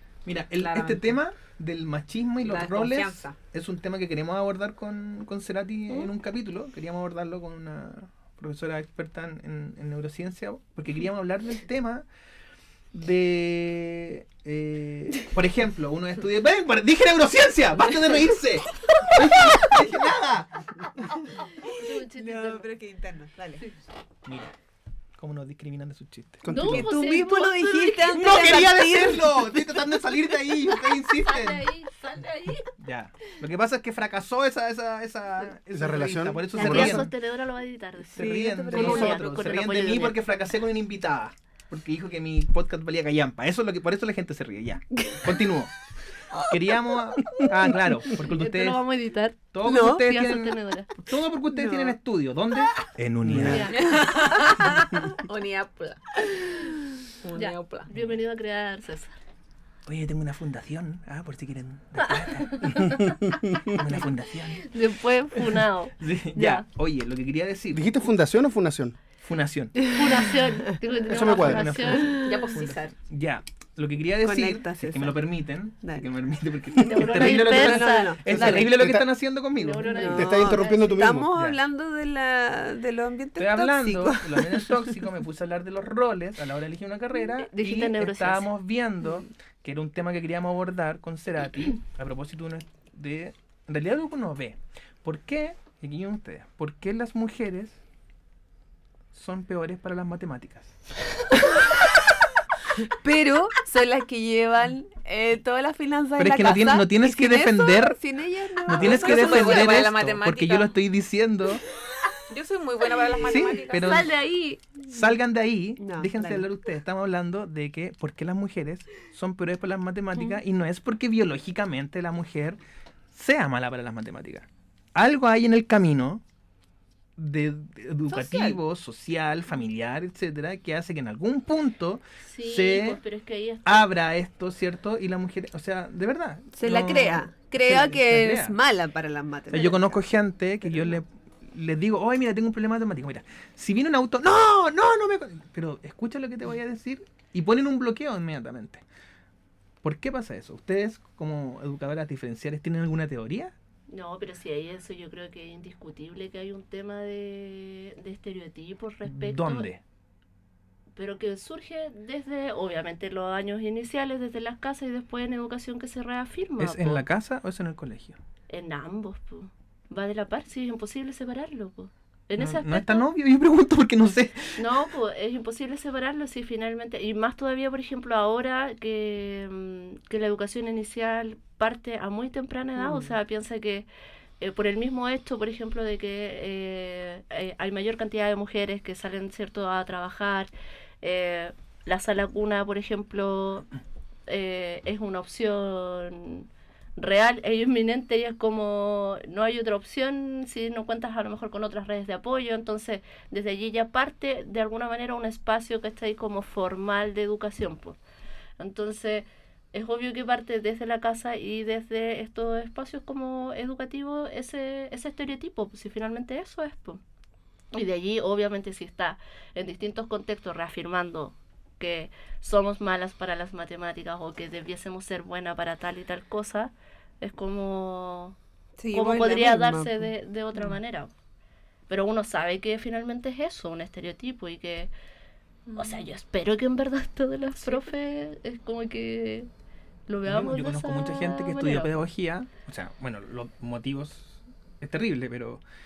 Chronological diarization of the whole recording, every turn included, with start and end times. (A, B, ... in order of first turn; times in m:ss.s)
0:00.2-0:12.0 A
0:00.6-0:01.2 B
0:02.4-0:03.4 B
0:12.9-0:20.6 A
0:21.6-0:23.6 C
0:21.8-0:22.7 D
0:24.2-0:24.5 A
0:25.2-0:26.4 A
0:26.4-0:27.0 E
0:26.5-0:28.5 D
0:26.6-0:30.1 C
0:28.1-0:31.6 A
0:31.2-0:32.7 D
0:32.8-0:37.1 A
0:35.7-0:37.1 E
0:36.5-0:40.2 D
0:38.1-0:45.7 A
0:38.1-0:39.3 C
0:45.0-0:45.4 C
0:46.5-0:48.8 A
0:48.2-0:50.9 D
0:49.5-0:53.9 A
0:49.6-0:50.1 C
0:51.5-0:52.0 C
0:53.2-0:53.6 E
0:53.5-0:53.8 D
0:53.7-0:57.9 B
0:53.8-0:54.5 C
0:57.4-0:59.2 D
0:57.9-0:58.2 A
0:59.9-1:02.8 A
1:02.0-1:03.7 D
1:02.8-1:03.8 E
1:03.7-1:04.7 A
1:04.6-1:06.6 D
1:05.4-1:07.9 A
1:07.7-1:09.0 E
1:09.2-1:09.8 A
1:09.9-1:12.2 D
1:11.1-1:11.7 E
1:11.1-1:20.0 A
1:12.1-1:12.5 C
1:12.2-1:13.0 B
1:14.2-1:16.1 C
1:16.8-1:18.5 D
1:17.0-1:18.9 C
1:18.4-1:19.1 E
1:19.6-1:20.8 D
1:19.9-1:25.0 C
1:20.1-1:21.4 E
1:21.3-1:21.6 A
1:23.4-1:37.8 A
1:27.4-1:28.5 D
1:39.1-1:40.7 A
1:43.0-1:49.8 C
1:46.2-1:48.0 A
1:48.6-1:51.6 A
1:48.8-1:50.8 B
1:52.3-1:54.1 B
1:53.2-1:54.1 A
1:53.8-1:54.6 D
1:54.9-2:02.6 A
1:55.8-1:56.5 C
2:03.1-2:06.2 A
2:07.2-2:13.0 A
2:08.2-2:08.6 C
2:12.2-2:14.0 D
2:13.6-2:18.6 A
2:16.6-2:20.0 C
2:19.5-2:28.8 A
2:29.8-2:33.5 A
2:33.9-2:39.7 D
2:39.0-2:39.8 A
2:41.0-2:47.0 D
2:46.6-2:48.2 A
2:48.5-2:53.1 D
2:52.4-2:54.7 A
2:54.6-3:03.9 D
3:02.8-3:03.2 C
3:04.4-3:10.5 D
3:11.0-3:13.7 D
3:14.3-3:28.0 D
3:28.6-3:37.0 D
3:37.7-3:48.4 D
3:48.8-3:50.1 C
3:48.9-3:51.1 D
3:51.9-3:54.9 D
3:55.7-3:56.0 B
3:55.7-3:59.5 D
4:00.1-4:02.0 D
4:00.3-4:05.6 A